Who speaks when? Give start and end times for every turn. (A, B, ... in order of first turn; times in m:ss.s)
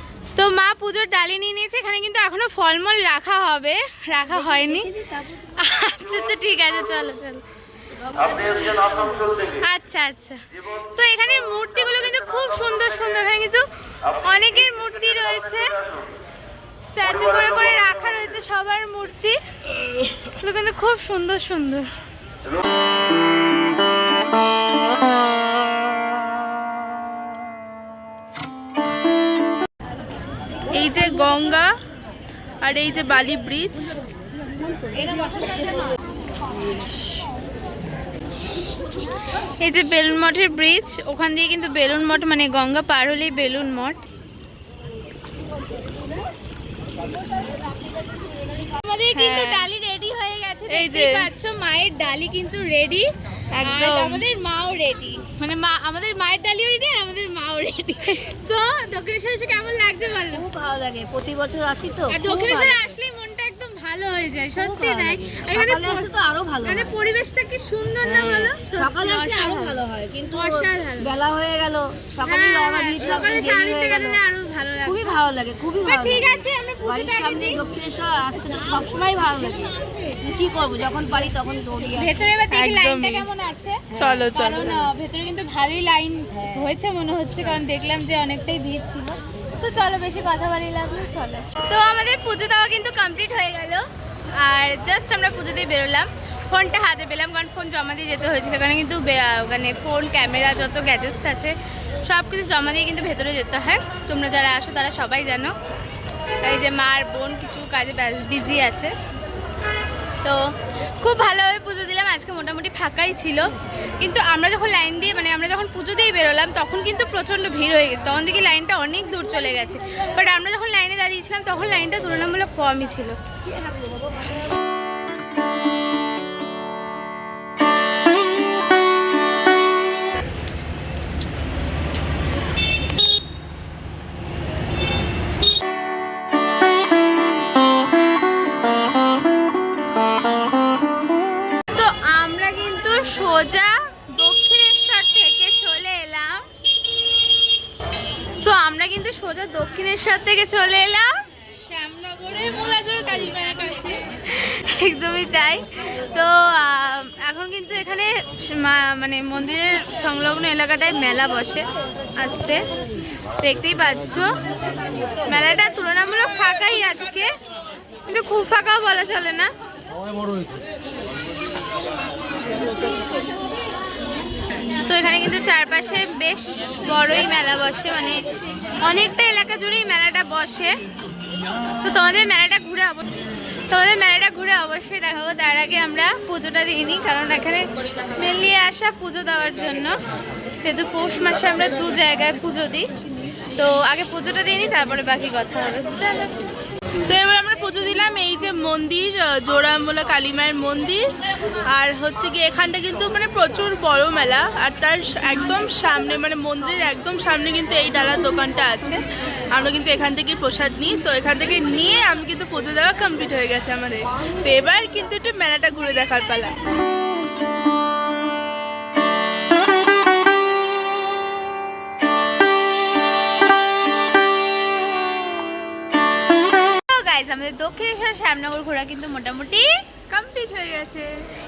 0:00.4-0:04.9 A
0:04.5-0:05.0 B
0:05.6-0:07.4 A
0:08.3-0:09.2 B
0:09.6-0:10.4 A
0:10.9-0:13.6 A
0:14.2-0:15.8 A
0:16.9-0:19.4 A
0:20.4-0:21.8 A
0:30.7-0:31.7 C
0:32.6-0:33.9 C
0:39.6-0:44.0 A
0:48.7-0:53.1 A
0:49.1-0:49.7 C
0:50.7-0:51.3 C
0:53.5-0:54.2 C
0:53.6-1:00.4 A
1:00.3-1:02.8 B
1:02.1-1:06.1 A
1:04.6-1:06.9 B
1:06.6-1:11.1 A
1:08.0-1:14.2 B
1:12.2-1:15.1 A
1:14.8-1:22.3 B
1:15.8-1:17.6 A
1:22.0-1:33.8 A
1:22.5-1:23.3 C
1:24.0-1:24.8 C
1:34.4-1:45.5 A
1:46.4-1:48.9 A
1:51.0-1:53.4 A
1:54.0-2:03.2 A
2:21.7-2:26.4 A
2:28.4-2:31.1 A
2:31.8-2:33.9 C
2:32.6-2:41.6 A
2:42.2-2:42.6 A
2:43.4-2:44.3 A
2:45.2-2:47.3 A
2:48.1-2:49.5 A
2:54.8-2:58.2 A
2:58.8-3:00.8 A
3:01.8-3:03.0 A
3:03.7-3:10.0 A
3:10.6-3:12.9 A
3:13.6-3:16.3 A
3:17.1-3:36.5 C
3:46.7-3:49.7 A
3:50.1-3:51.1 C